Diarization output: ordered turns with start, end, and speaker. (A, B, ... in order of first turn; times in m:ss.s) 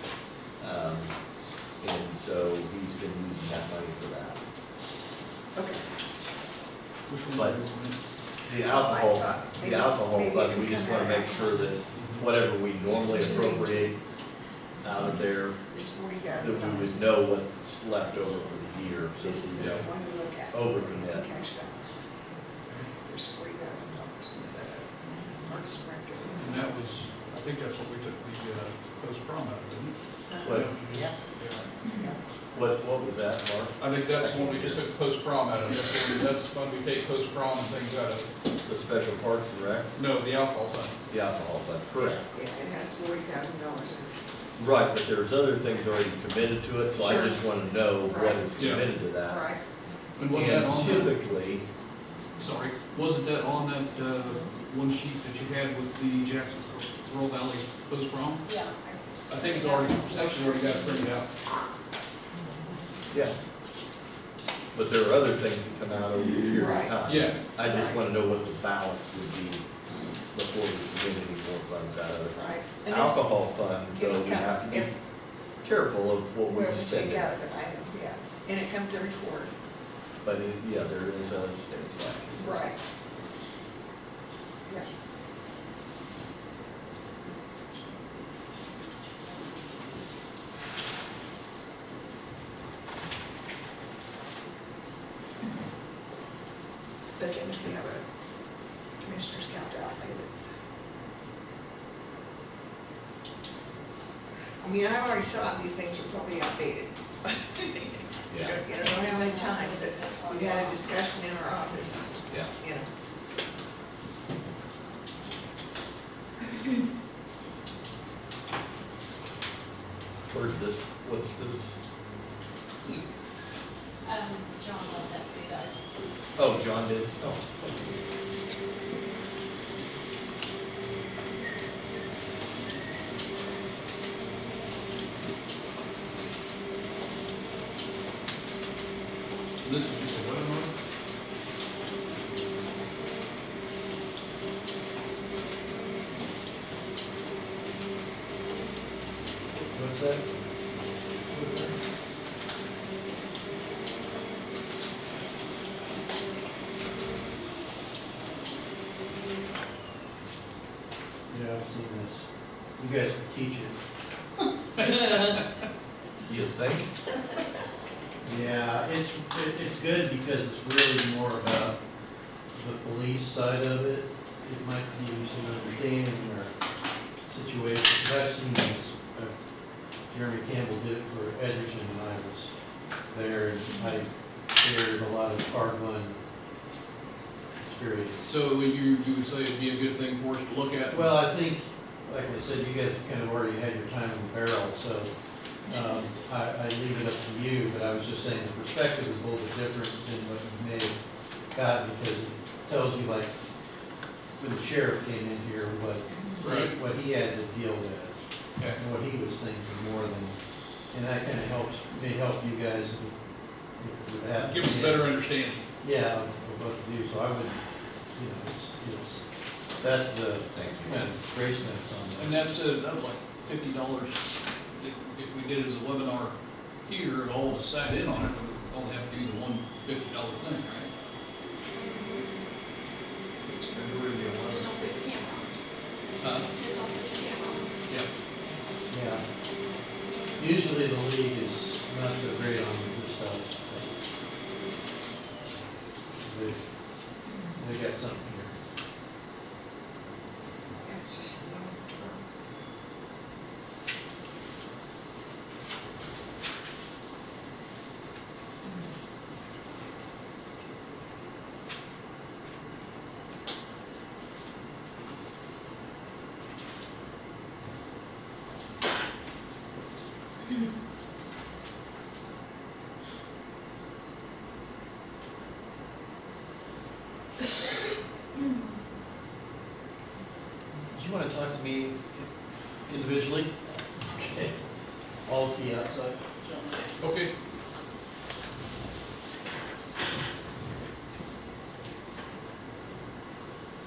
0:00.6-0:01.2 A
0:01.8-0:04.4 A
0:05.6-0:05.8 B
0:07.1-0:08.0 C
0:07.3-0:07.6 A
0:08.4-0:14.0 A
0:08.6-0:11.7 B
0:11.9-0:12.2 C
0:12.9-0:14.1 D
0:13.0-0:13.4 B
0:14.8-0:15.6 A
0:15.7-0:17.1 B
0:16.4-0:19.9 A
0:19.2-0:22.0 B
0:19.6-0:19.9 C
0:20.5-0:21.3 A
0:23.0-0:26.9 B
0:26.3-0:31.7 C
0:30.3-0:30.6 B
0:30.4-0:30.9 A
0:31.9-0:32.2 B
0:32.5-0:34.8 A
0:33.8-0:38.3 C
0:38.6-0:39.9 A
0:40.0-0:41.0 C
0:41.1-0:42.2 A
0:42.2-0:44.1 B
0:44.6-0:49.4 A
0:47.0-0:47.5 B
0:48.0-0:48.5 B
0:48.6-0:48.9 C
0:49.2-0:49.6 B
0:50.2-0:51.2 C
0:50.3-0:51.7 A
0:52.4-0:58.5 C
0:58.4-0:58.8 D
0:59.3-1:01.3 C
0:59.4-1:01.0 D
1:04.7-1:09.7 A
1:06.4-1:07.0 B
1:07.0-1:07.4 C
1:07.6-1:08.0 B
1:10.3-1:14.9 A
1:12.3-1:13.3 B
1:13.9-1:14.9 B
1:15.6-1:17.3 A
1:16.5-1:19.5 B
1:20.2-1:22.7 A
1:22.4-1:22.8 B
1:37.2-1:38.0 B
1:39.0-1:40.5 B
1:44.6-1:52.9 B
1:48.3-1:48.6 A
1:48.8-1:52.3 D
2:00.3-2:01.8 A
2:04.0-2:05.9 D
2:06.4-2:07.9 A
2:19.6-2:20.7 C
2:29.6-2:30.3 E
2:31.3-2:31.8 E
2:41.3-2:42.3 E
2:42.8-2:43.8 E
2:44.8-2:45.4 C
2:46.2-2:46.9 A
2:48.2-2:51.8 E
2:52.6-2:56.5 E
2:57.3-2:59.3 E
3:00.1-3:02.5 E
3:03.1-3:06.2 E
3:07.6-3:08.3 E
3:08.2-3:11.1 C
3:10.9-3:15.1 E
3:15.7-3:21.0 E
3:15.7-3:16.0 D
3:21.5-3:23.4 E
3:24.4-3:30.4 E
3:26.1-3:26.4 B
3:26.4-3:26.7 C
3:30.9-3:33.2 E
3:33.8-3:35.1 E
3:34.4-3:35.6 C
3:35.8-3:37.6 E
3:38.2-3:39.2 E
3:39.8-3:42.4 E
3:40.5-3:41.0 A
3:42.2-3:44.2 C
3:44.8-3:50.9 C
3:51.6-3:52.3 D
3:53.4-3:54.0 C
3:53.8-3:54.6 A
3:54.4-3:55.6 D
3:56.2-3:56.5 C
3:56.4-3:57.7 D
3:58.9-3:59.2 E
4:00.4-4:03.9 E
4:06.2-4:06.6 E
4:07.6-4:08.5 E
4:10.8-4:12.2 B
4:18.6-4:18.9 B
4:40.9-4:42.3 E
4:42.9-4:44.6 E
4:45.3-4:46.8 E
4:47.0-4:47.3 C